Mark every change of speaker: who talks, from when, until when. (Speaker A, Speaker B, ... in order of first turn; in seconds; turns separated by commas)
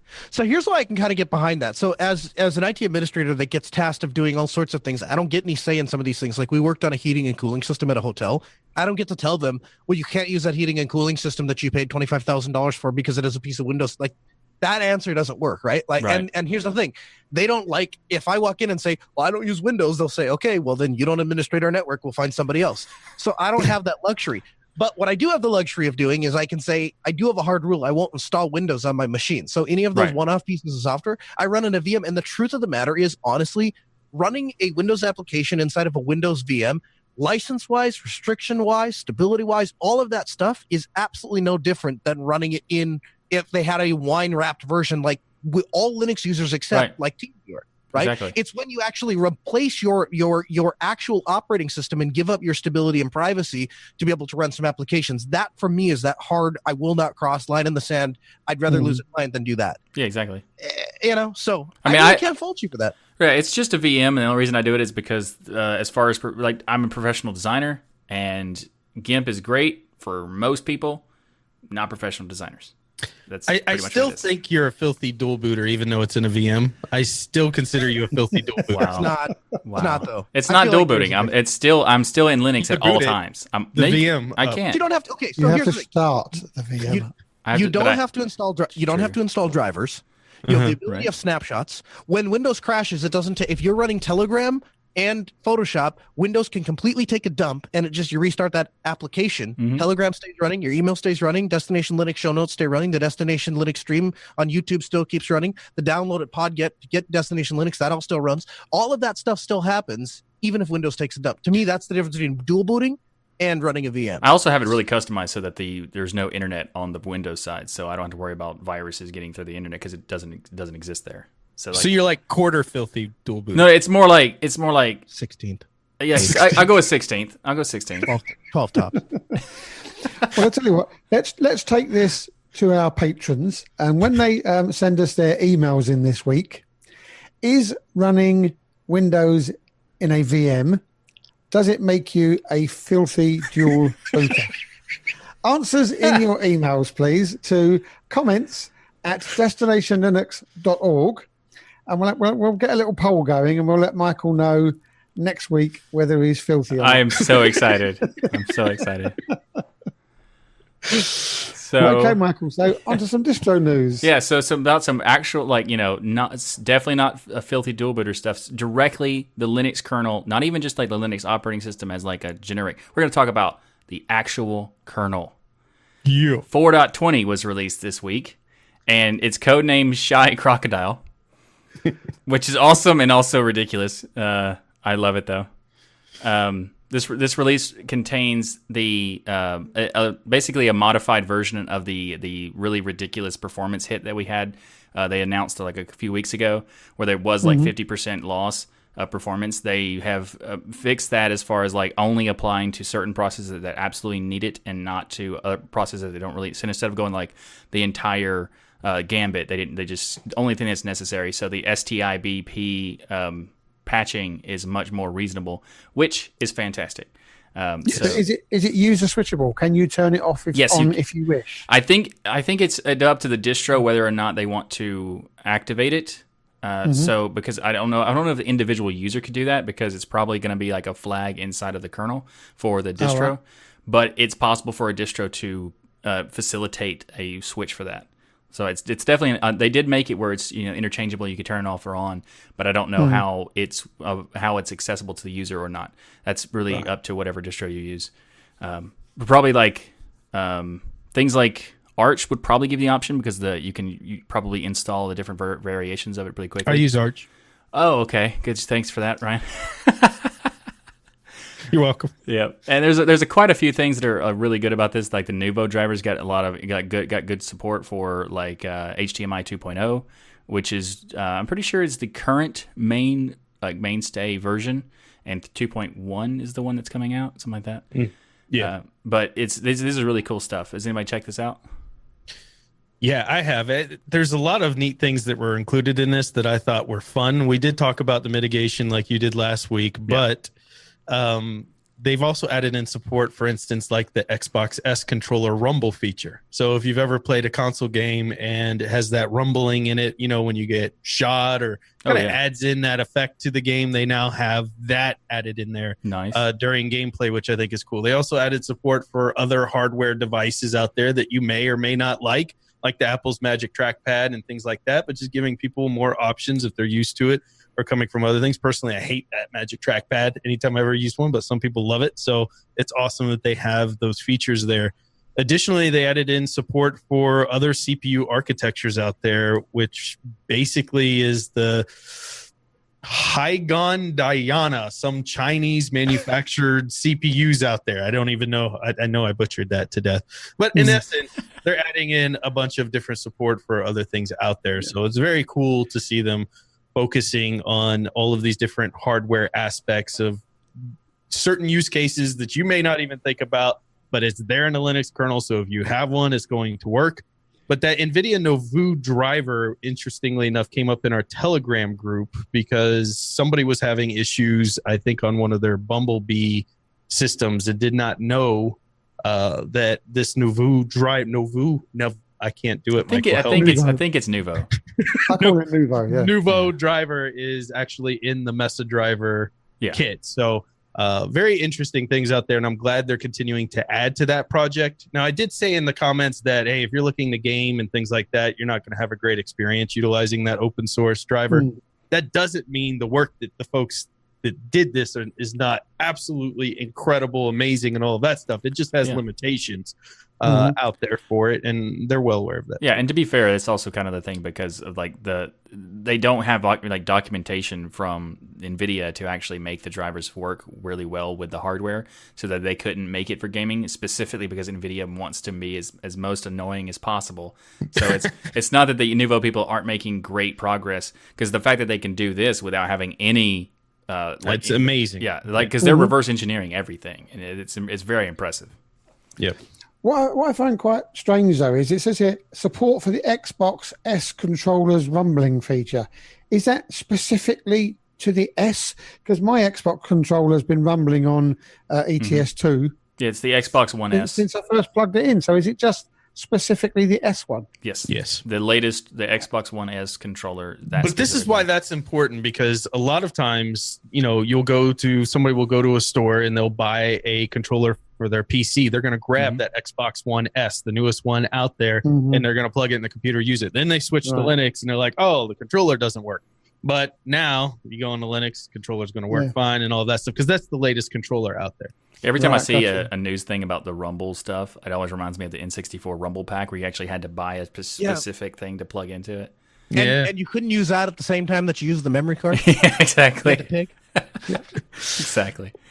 Speaker A: 0.3-59.8, Speaker B: 16.0-16.3, Speaker B: 47.9-48.4, Speaker C: 58.7-59.0, Speaker B: 60.0-60.4, Speaker A: 60.6-63.0, Speaker B: 61.8-62.2, Speaker B: 63.2-71.0, Speaker B: 71.7-72.7, Speaker B: 73.3-74.3, Speaker D: 73.5-79.1, Speaker B: 78.7-79.1, Speaker A: 79.0-81.3, Speaker B: 79.6-84.8, Speaker D: 82.7-83.2, Speaker D: 83.7-84.6, Speaker A: 84.7-85.9, Speaker C: 85.4-87.1, Speaker A: 86.9-114.3, Speaker B: 87.5-88.0, Speaker B: 88.9-89.2, Speaker D: 90.5-90.8, Speaker B: 90.8-91.1, Speaker B: 99.6-99.9, Speaker B: 114.2-121.9, Speaker D: 121.7-123.7, Speaker B: 123.5-125.1, Speaker A: 125.1-125.6, Speaker B: 126.0-128.1, Speaker A: 126.2-126.5, Speaker A: 128.1-129.0, Speaker C: 130.2-136.7, Speaker C: 137.4-140.8, Speaker C: 141.5-144.5, Speaker C: 145.4-151.3, Speaker C: 151.9-157.4, Speaker B: 156.8-159.2, Speaker B: 161.6-162.2, Speaker C: 161.8-164.1, Speaker B: 164.0-175.3, Speaker D: 176.1-176.4, Speaker B: 176.5-181.0, Speaker B: 182.2-185.5, Speaker B: 186.2-218.2, Speaker C: 197.4-197.7, Speaker D: 217.9-218.1, Speaker C: 217.9-221.7, Speaker B: 220.5-221.0, Speaker B: 221.7-248.1, Speaker C: 226.8-227.1, Speaker C: 233.0-233.3, Speaker C: 243.0-243.2, Speaker B: 248.6-256.9, Speaker D: 256.7-257.3, Speaker B: 257.7-260.5, Speaker D: 261.7-262.1, Speaker B: 262.3-277.9, Speaker D: 277.9-278.7, Speaker B: 278.6-281.6, Speaker D: 283.0-290.5, Speaker D: 291.1-332.4, Speaker B: 302.0-302.4, Speaker B: 306.0-306.4, Speaker D: 333.0-350.4, Speaker C: 340.8-341.0, Speaker D: 351.3-373.8, Speaker B: 373.0-374.7, Speaker C: 373.5-374.0, Speaker D: 375.0-402.8, Speaker C: 375.3-376.3, Speaker C: 391.5-391.8, Speaker C: 400.4-400.8, Speaker B: 402.8-428.7, Speaker D: 424.5-425.7, Speaker C: 425.8-426.1, Speaker C: 430.0-442.9, Speaker B: 442.2-442.5, Speaker B: 443.2-444.4, Speaker C: 444.1-447.7, Speaker B: 447.8-451.7, Speaker D: 448.1-448.4, Speaker D: 451.0-471.9, Speaker B: 459.4-459.6, Speaker C: 462.1-462.4, Speaker C: 464.2-464.5, Speaker B: 472.2-479.5, Speaker C: 472.4-473.1, Speaker D: 479.9-480.3, Speaker A: 479.9-482.6, Speaker B: 482.5-484.4, Speaker A: 483.4-483.9, Speaker B: 485.0-485.7